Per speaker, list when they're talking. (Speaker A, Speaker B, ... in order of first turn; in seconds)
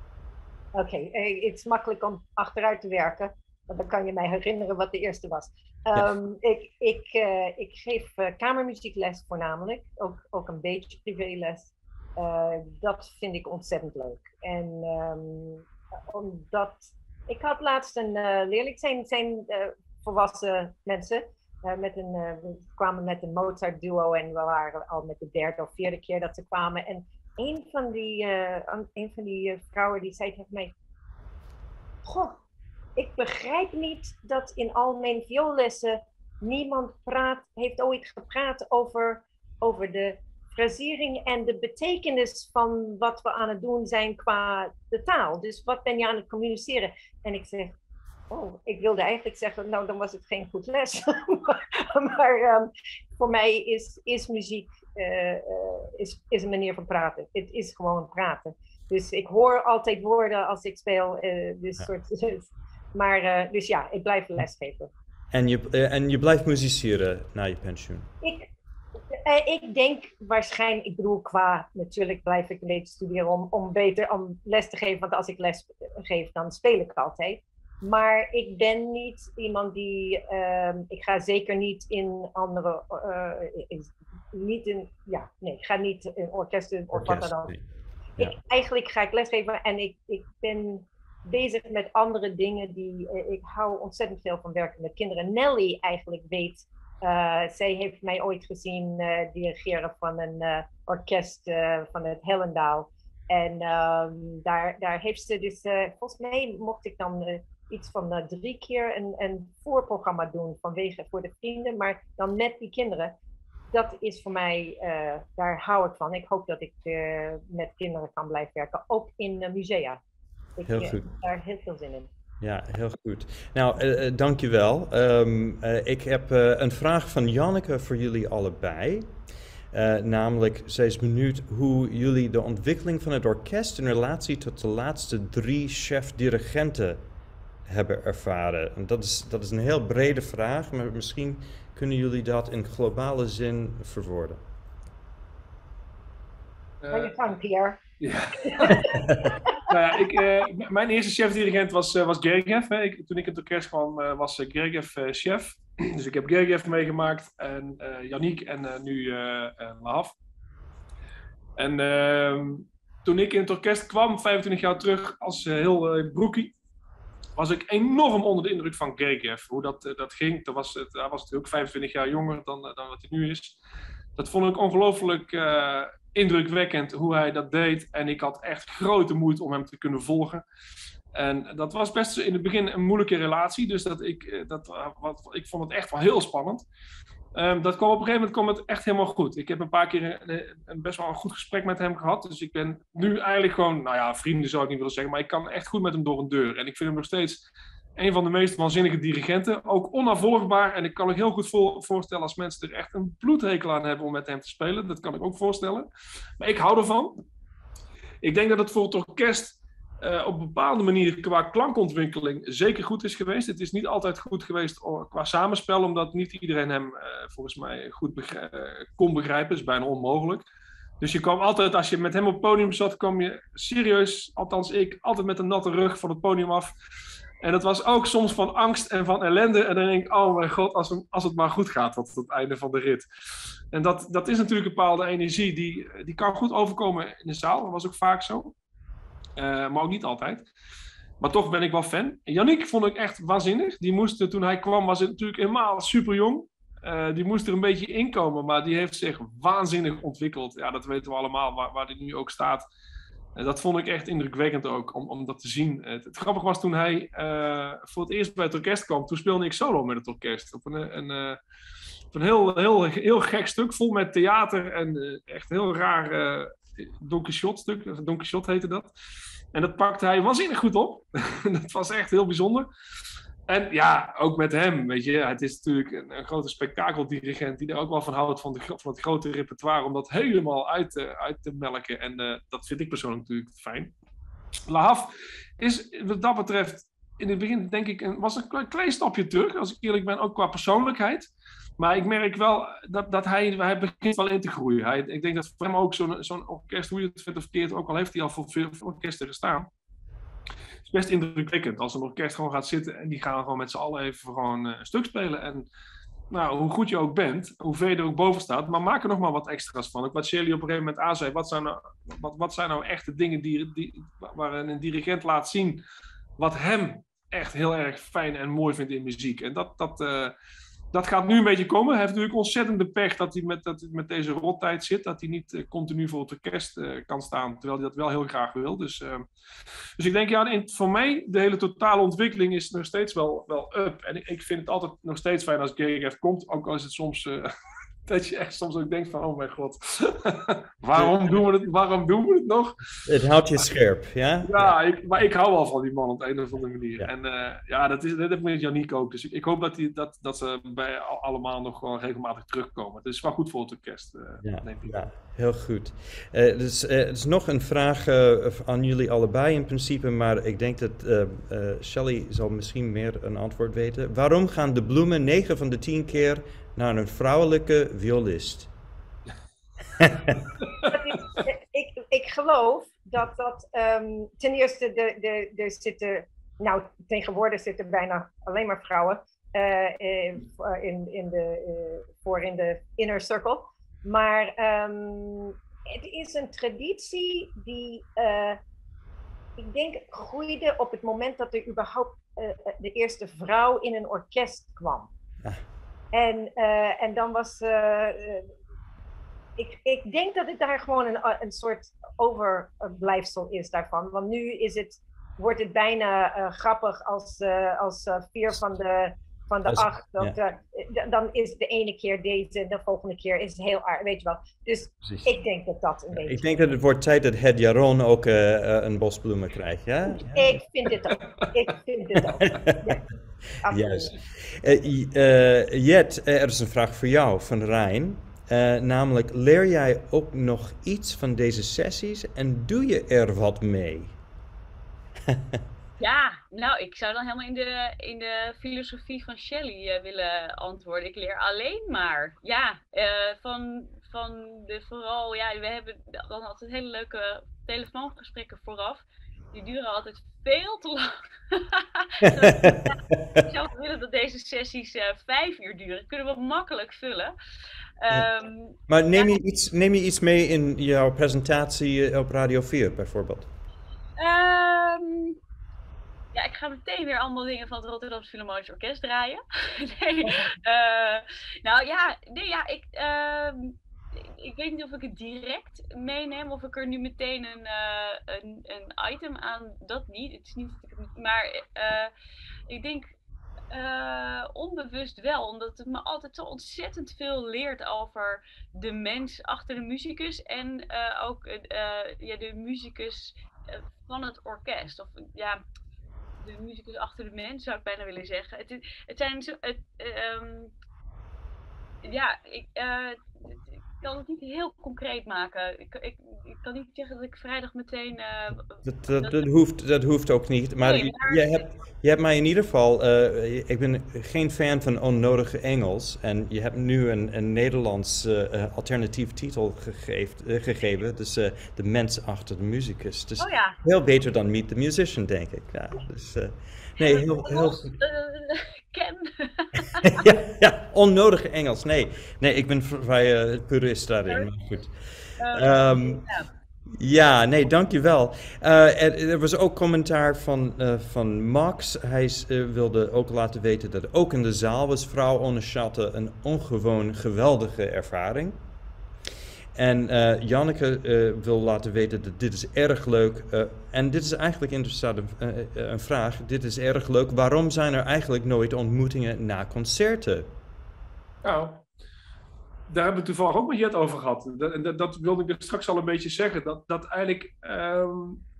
Speaker A: 0.7-30.7, 32.0-32.4, 33.0-47.8, 48.3-64.9, 68.2-68.5, 69.1-87.5, 88.2-113.1, 113.7-120.0, 120.6-122.1, 146.9-147.8, 148.4-150.4, 370.8-388.6, 389.6-395.1, 396.1-398.5, 399.6-416.4, 420.1-423.0, 423.6-424.1
Speaker B: 65.3-68.1, 86.9-87.6, 120.7-121.2, 122.4-129.2, 129.7-137.0, 137.7-144.4, 148.7-149.4, 343.0-344.7, 354.4-368.7, 370.0-370.5, 409.6-410.4, 415.0-415.3, 416.1-420.6, 422.3-423.0, 423.6-434.2, 435.3-435.6, 452.2-453.4, 458.9-463.5, 508.8-527.9, 530.1-536.3, 537.0-548.6, 549.7-560.5
Speaker C: 146.8-147.2, 148.0-149.0, 149.7-160.1, 161.6-166.5, 167.3-173.6, 174.2-180.4, 181.1-186.6, 187.3-205.9, 206.4-207.2, 208.2-220.4, 221.0-226.7, 227.4-233.0, 233.7-238.5, 239.3-240.5, 241.2-252.7, 253.3-261.4, 262.1-268.9, 269.5-272.7, 273.5-283.9, 284.7-299.7, 300.9-305.7, 306.3-315.8, 316.4-320.3, 320.9-329.2, 330.0-337.5, 338.1-342.9, 344.4-355.0, 561.4-561.8, 562.9-568.4
Speaker D: 436.0-457.3, 458.0-459.4, 464.2-465.4, 466.3-482.1, 482.7-483.1, 483.7-495.6, 496.4-500.7, 502.0-509.5, 510.8-511.7, 523.4-523.8, 527.0-530.2, 535.4-536.5